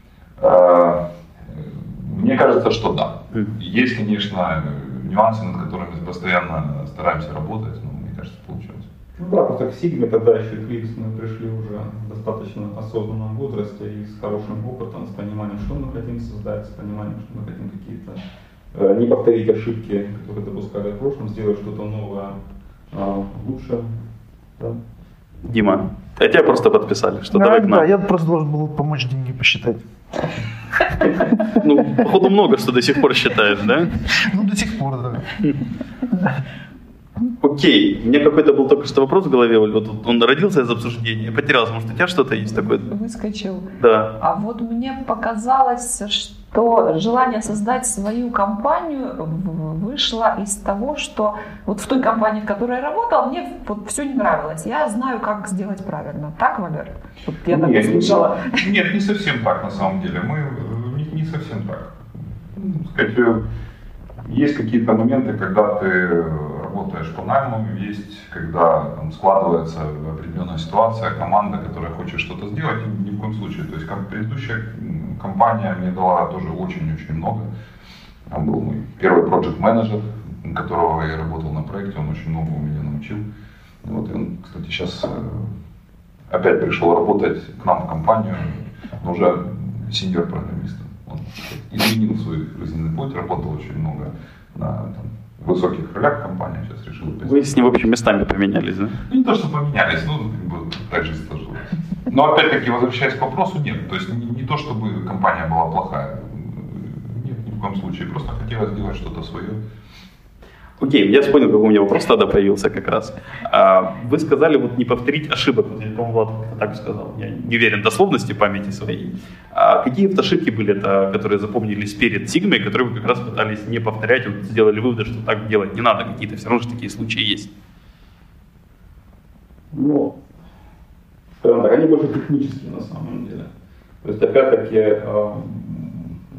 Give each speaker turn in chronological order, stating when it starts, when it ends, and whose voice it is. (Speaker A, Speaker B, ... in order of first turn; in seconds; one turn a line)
Speaker A: 0.4-8.9
Speaker B: 9.2-18.2
Speaker B: 18.7-22.4
Speaker B: 22.9-23.9
Speaker C: 25.4-27.9
Speaker D: 27.3-29.8
Speaker C: 31.4-33.9
Speaker D: 34.0-35.4
Speaker C: 37.4-42.9
Speaker E: 42.9-58.5
Speaker C: 43.8-44.1
Speaker A: 57.5-62.0
Speaker A: 62.5-63.4
Speaker A: 64.2-77.5
Speaker A: 78.3-83.2
Speaker A: 83.8-85.5
Speaker A: 86.3-97.7
Speaker C: 97.2-99.0
Speaker A: 99.1-109.6
Speaker C: 110.8-127.5
Speaker B: 129.7-130.1
Speaker B: 131.4-133.5
Speaker B: 134.0-136.2